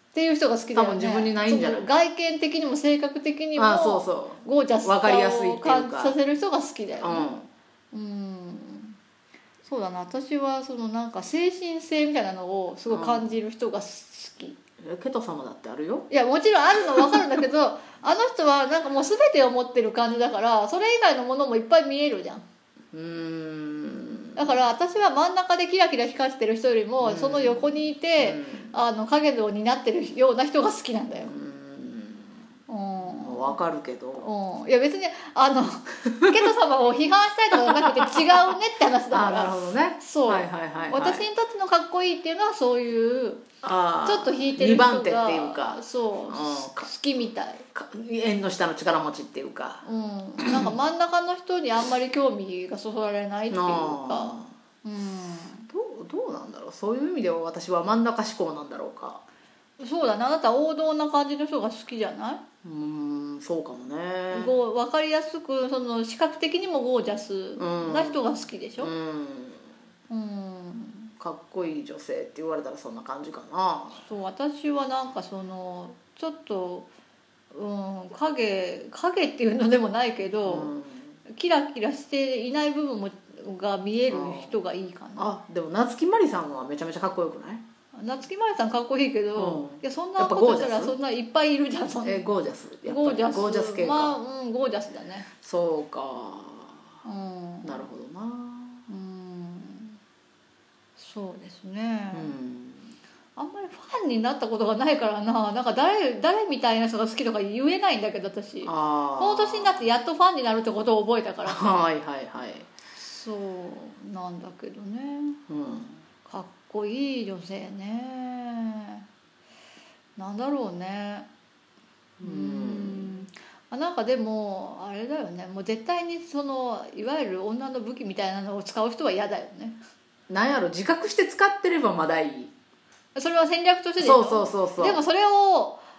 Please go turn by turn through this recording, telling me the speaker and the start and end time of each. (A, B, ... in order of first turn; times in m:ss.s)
0:00.1-0:07.3 A
0:00.7-0:01.9 B
0:03.6-0:06.2 B
0:07.0-0:07.5 B
0:07.9-0:09.0 A
0:09.6-0:14.6 A
0:12.9-0:13.3 B
0:14.8-0:16.1 B
0:16.1-0:22.4 A
0:22.9-0:24.5 B
0:24.4-0:31.3 A
0:27.0-0:28.7 B
0:31.3-0:32.2 B
0:32.7-0:33.6 A
0:33.1-0:34.3 B
0:34.2-0:43.4 A
0:37.7-0:38.4 B
0:39.1-0:41.3 B
0:43.6-0:46.9 B
0:44.0-0:47.6 A
0:47.7-0:49.8 B
0:49.8-0:55.7 A
0:50.4-0:50.7 B
0:53.5-0:54.5 B
0:55.7-0:59.2 B
0:59.8-1:02.4 A
1:02.6-1:04.5 B
1:04.3-1:08.9 A
1:07.6-1:09.6 B
1:10.1-1:11.1 A
1:11.2-1:14.0 B
1:13.9-1:16.9 A
1:17.5-1:20.7 A
1:20.4-1:21.1 B
1:21.3-1:25.3 A
1:24.1-1:24.5 B
1:25.2-1:27.6 B
1:27.9-1:32.2 A
1:29.3-1:30.9 B
1:32.0-1:34.2 B
1:32.8-1:35.3 A
1:35.4-1:36.8 B
1:37.0-1:37.8 A
1:37.6-1:38.8 B
1:38.9-1:40.0 A
1:41.0-1:42.3 A
1:42.1-1:42.9 B
1:43.4-1:51.9 A
1:48.6-1:49.8 B
1:51.4-1:52.6 B
1:53.0-1:55.4 A
1:55.5-1:56.0 B
1:56.2-1:59.0 A
2:00.2-2:01.3 A
2:02.2-2:03.1 B
2:02.2-2:09.8 A
2:10.3-2:12.5 B
2:13.1-2:15.8 A
2:14.0-2:15.0 B